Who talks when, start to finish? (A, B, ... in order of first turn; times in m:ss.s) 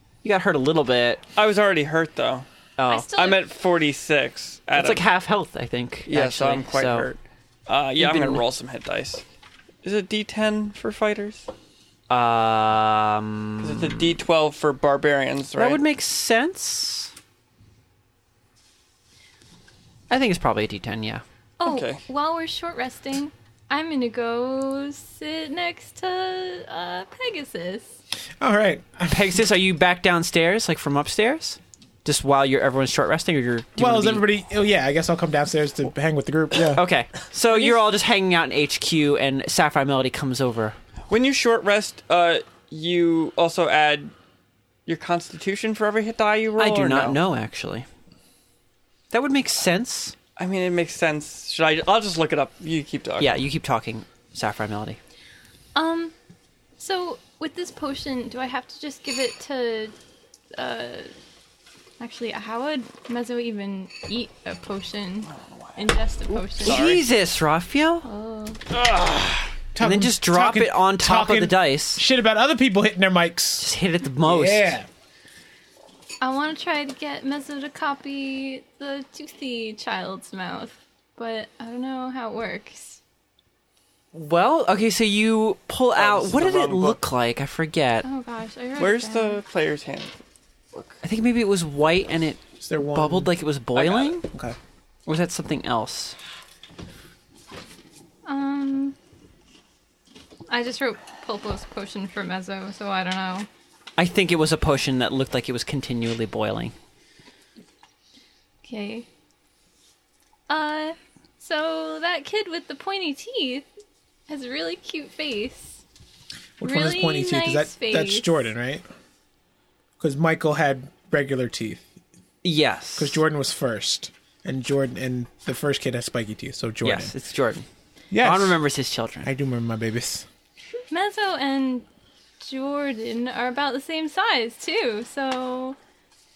0:00.2-0:01.2 A
0:01.4-0:02.4 B
0:02.8-0:03.1 A
0:02.9-0:03.4 C
0:03.1-0:05.0 B
0:04.7-0:07.1 A
0:06.1-0:09.2 B
0:08.0-0:08.4 A
0:09.8-0:11.5 B
0:12.1-0:14.1 A
0:13.6-0:15.8 B
0:15.6-0:17.1 A
0:20.1-0:21.2 A
0:21.6-0:27.9 C
0:21.6-0:22.0 B
0:28.4-0:29.4 D
0:29.1-0:34.2 A
0:33.8-0:36.8 D
0:36.7-0:40.8 A
0:37.5-0:37.8 B
0:41.1-0:44.1 B
0:44.8-0:47.2 B
0:46.6-0:47.9 A
0:49.1-0:50.1 A
0:50.4-0:53.4 B
0:53.2-0:55.0 A
0:55.7-0:56.1 C
0:56.8-0:59.9 C
1:00.6-1:01.1 C
1:02.0-1:06.8 C
1:06.3-1:08.1 A
1:06.6-1:07.0 B
1:08.0-1:08.6 C
1:08.7-1:09.5 B
1:09.7-1:13.7 D
1:09.8-1:12.0 A
1:13.6-1:14.8 A
1:14.2-1:14.9 D
1:16.2-1:23.0 C
1:24.1-1:28.0 A
1:26.0-1:27.0 B
1:28.0-1:29.4 C
1:28.8-1:30.1 B
1:31.0-1:32.4 A
1:32.6-1:33.3 D
1:32.9-1:34.2 A
1:33.8-1:34.2 B
1:34.3-1:34.6 D
1:35.1-1:36.1 A
1:38.2-1:39.0 C
1:40.5-1:43.5 C
1:44.0-1:46.7 A
1:48.6-1:49.1 C
1:50.5-1:53.7 C
1:54.3-1:55.8 C
1:56.6-1:58.8 D
1:56.6-1:58.4 C
2:00.0-2:01.8 D
2:02.4-2:03.2 A
2:03.0-2:07.1 D
2:06.8-2:07.6 A
2:08.1-2:08.6 D
2:08.2-2:09.3 A
2:09.2-2:10.2 D
2:10.9-2:11.8 C
2:12.4-2:15.8 C